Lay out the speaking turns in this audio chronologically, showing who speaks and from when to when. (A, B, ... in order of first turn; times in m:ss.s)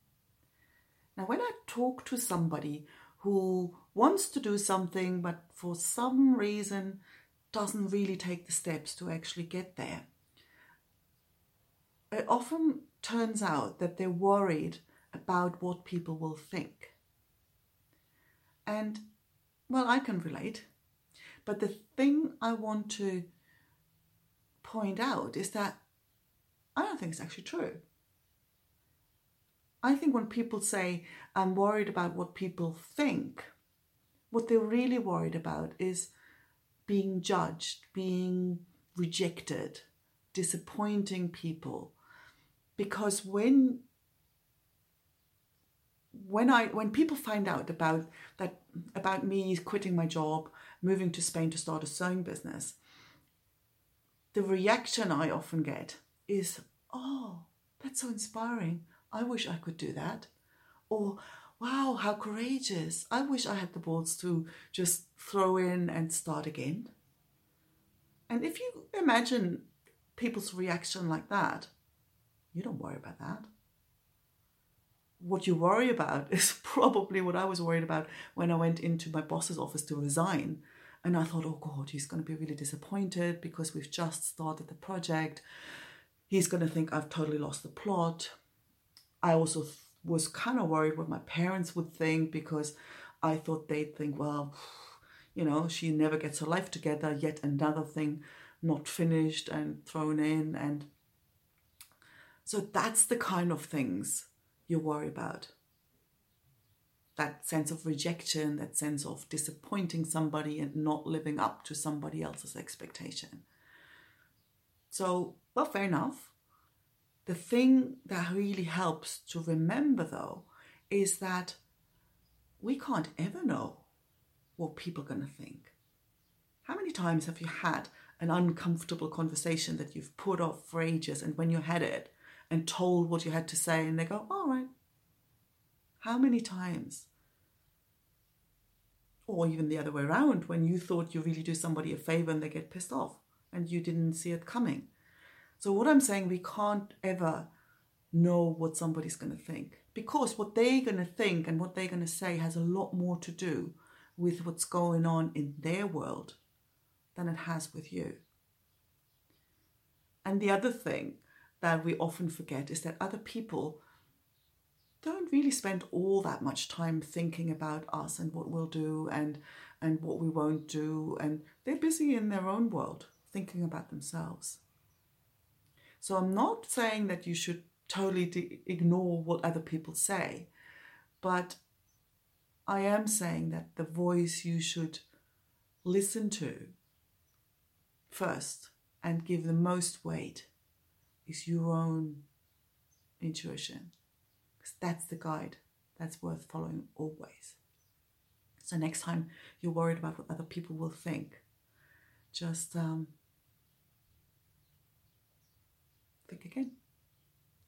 0:01.2-0:07.0 A
0:07.5-0:10.1 A
0:12.1-0:17.0 A
0:18.6-0:19.0 A
0:19.7-0:20.7 A
0:21.4-0:23.3 A
0:24.6-0:25.8 A
0:26.8-0:27.8 A
0:29.8-0:33.5 A
0:34.3-0:36.1 A
0:36.8-0:42.0 A
0:42.8-0:43.8 A
0:46.1-0:52.8 A
0:54.3-1:00.3 A
1:00.9-1:06.9 A
1:08.3-1:11.7 A
1:12.5-1:13.5 A
1:15.2-1:25.4 A
1:26.3-1:28.3 A
1:29.2-1:40.9 A
1:42.4-1:45.5 A
1:47.2-1:53.4 A
1:54.9-1:56.4 A
1:57.2-2:01.6 A
2:02.6-2:03.8 A
2:04.6-2:05.7 A
2:06.6-2:14.7 A
2:16.0-2:17.1 A
2:19.2-2:24.9 A
2:25.6-2:27.5 A
2:28.1-2:36.4 A
2:37.1-2:38.2 A
2:40.2-2:43.8 A
2:45.0-2:54.6 A
2:56.0-3:00.5 A
3:01.2-3:01.6 A
3:02.7-3:05.0 A
3:05.8-3:06.7 A
3:08.1-3:10.5 A
3:11.2-3:12.2 A
3:13.2-3:13.9 A
3:14.6-3:17.6 A
3:18.6-3:21.4 A
3:22.3-3:23.1 A
3:26.2-3:26.7 A